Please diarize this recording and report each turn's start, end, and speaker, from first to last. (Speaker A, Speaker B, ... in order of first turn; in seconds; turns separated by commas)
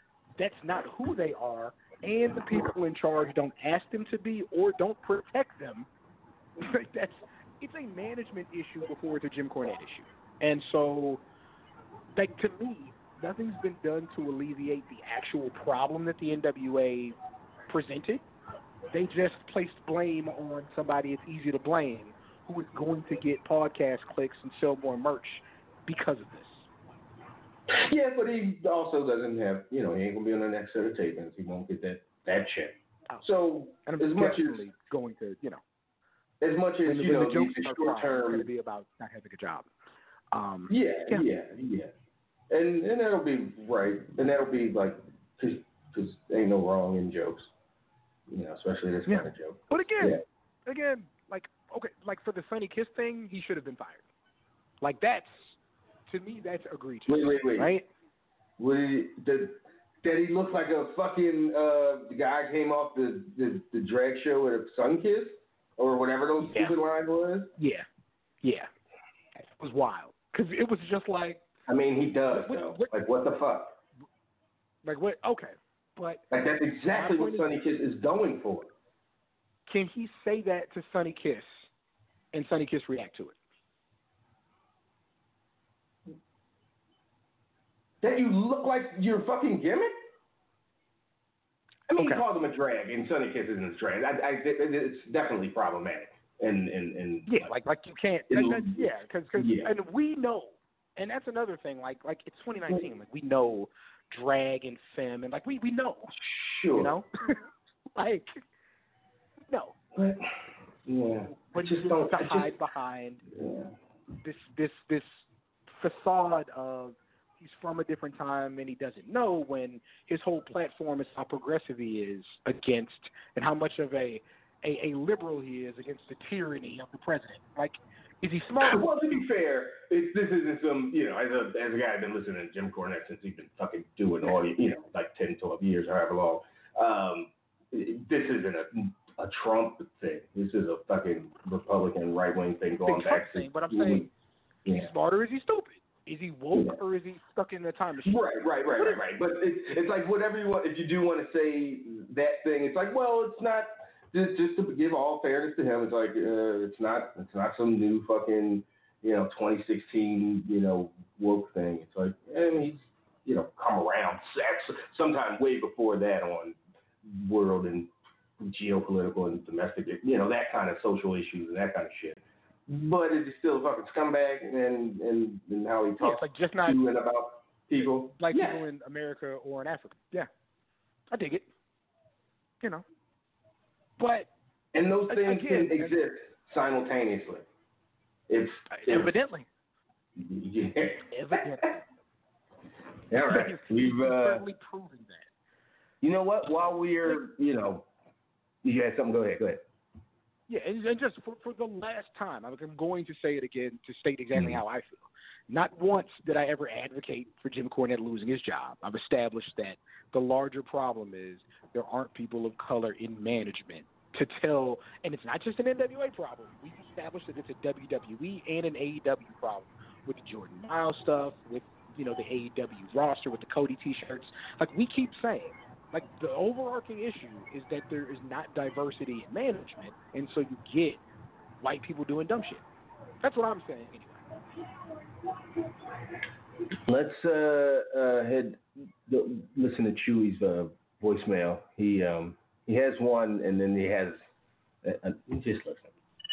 Speaker A: 0.4-5.9, Speaker A: 6.6-11.2, Speaker A: 12.1-17.1, Speaker A: 17.7-18.2, Speaker A: 18.9-26.7, Speaker B: 27.7-34.6, Speaker A: 33.8-35.6, Speaker B: 36.4-38.5, Speaker A: 36.9-39.7, Speaker A: 40.3-41.2, Speaker B: 40.7-41.9, Speaker B: 42.5-47.5, Speaker B: 48.3-50.2, Speaker A: 49.1-54.0, Speaker A: 54.8-55.5, Speaker A: 56.1-57.9, Speaker B: 57.1-57.7, Speaker B: 58.6-67.5, Speaker A: 66.4-66.8, Speaker A: 67.6-67.8, Speaker A: 68.4-68.7, Speaker A: 69.4-71.4, Speaker B: 71.7-73.8, Speaker A: 72.3-72.9, Speaker A: 74.8-76.2, Speaker B: 76.3-78.7, Speaker A: 76.9-77.5, Speaker A: 79.7-81.7, Speaker A: 82.3-83.4, Speaker B: 88.0-89.9, Speaker B: 91.9-97.5, Speaker A: 92.0-92.2, Speaker A: 97.3-106.2, Speaker B: 98.3-99.7, Speaker B: 106.2-107.0, Speaker A: 106.7-107.4, Speaker A: 108.0-108.4, Speaker A: 109.5-109.8, Speaker B: 109.9-112.5, Speaker A: 111.5-113.2, Speaker B: 113.3-113.7, Speaker A: 114.2-129.2, Speaker B: 128.6-144.1, Speaker A: 142.8-144.1, Speaker B: 144.6-144.9, Speaker A: 144.7-149.0, Speaker B: 148.0-178.6, Speaker A: 176.0-176.8, Speaker A: 178.2-180.3, Speaker A: 181.1-181.5, Speaker A: 184.0-184.3, Speaker B: 184.7-187.4, Speaker A: 185.1-185.9, Speaker B: 188.3-189.1, Speaker A: 188.7-189.5, Speaker B: 190.2-191.6, Speaker A: 191.1-191.8, Speaker B: 193.1-194.4, Speaker A: 193.2-195.3, Speaker B: 196.0-197.9, Speaker B: 198.6-199.6, Speaker A: 200.5-231.0, Speaker A: 231.6-232.6, Speaker A: 233.2-234.2, Speaker B: 236.8-244.2, Speaker B: 244.8-245.9